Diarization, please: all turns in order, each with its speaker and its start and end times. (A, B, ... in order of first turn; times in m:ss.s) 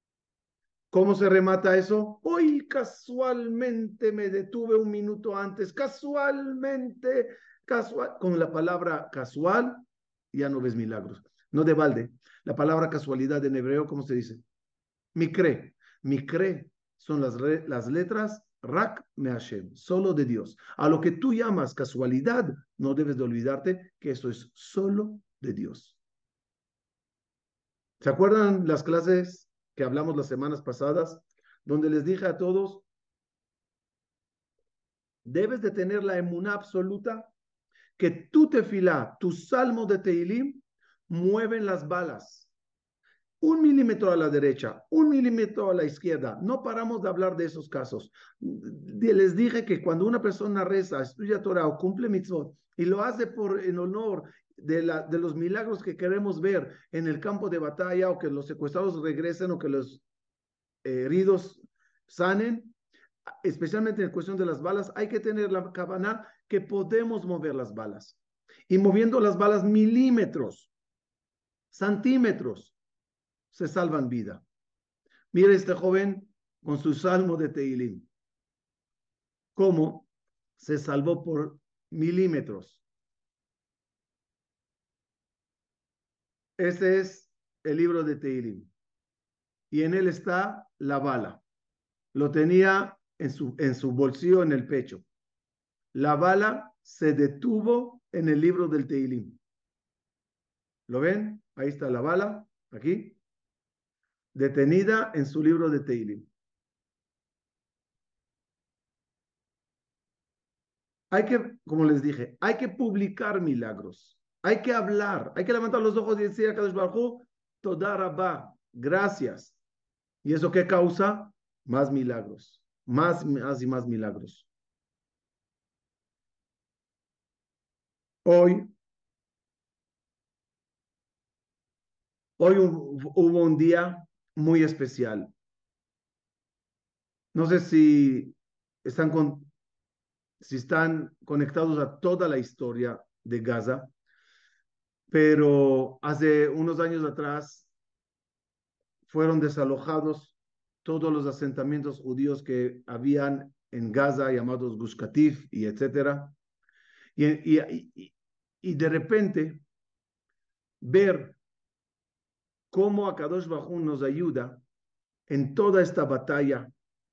0:00.9-0:14.4 A
0:15.2-0:26.0 A
0:28.0-0:32.8 A
0:35.2-0:37.3 A
0:38.0-0:42.5 A
0:43.4-1:00.0 A
1:00.8-1:02.8 A
1:03.4-1:08.2 A
1:08.7-1:10.7 A
1:11.7-1:12.7 A
1:13.5-1:14.4 A
1:15.3-1:18.1 A
1:19.6-1:20.1 A
1:20.6-1:22.8 A
1:26.6-1:28.7 A
1:29.7-1:31.4 A
1:32.1-1:35.0 A
1:35.9-1:39.4 A
1:40.9-1:43.2 A
1:44.4-1:46.3 A
1:51.1-1:59.6 A
2:00.2-2:04.5 A
2:08.2-2:08.7 A
2:12.4-2:15.3 A
2:17.3-2:19.5 A
2:20.4-2:23.9 A
2:25.1-2:27.7 A
2:29.1-2:36.3 A
2:37.2-2:39.6 A
2:40.8-2:41.4 A
2:42.7-2:44.6 A
2:45.3-2:46.7 A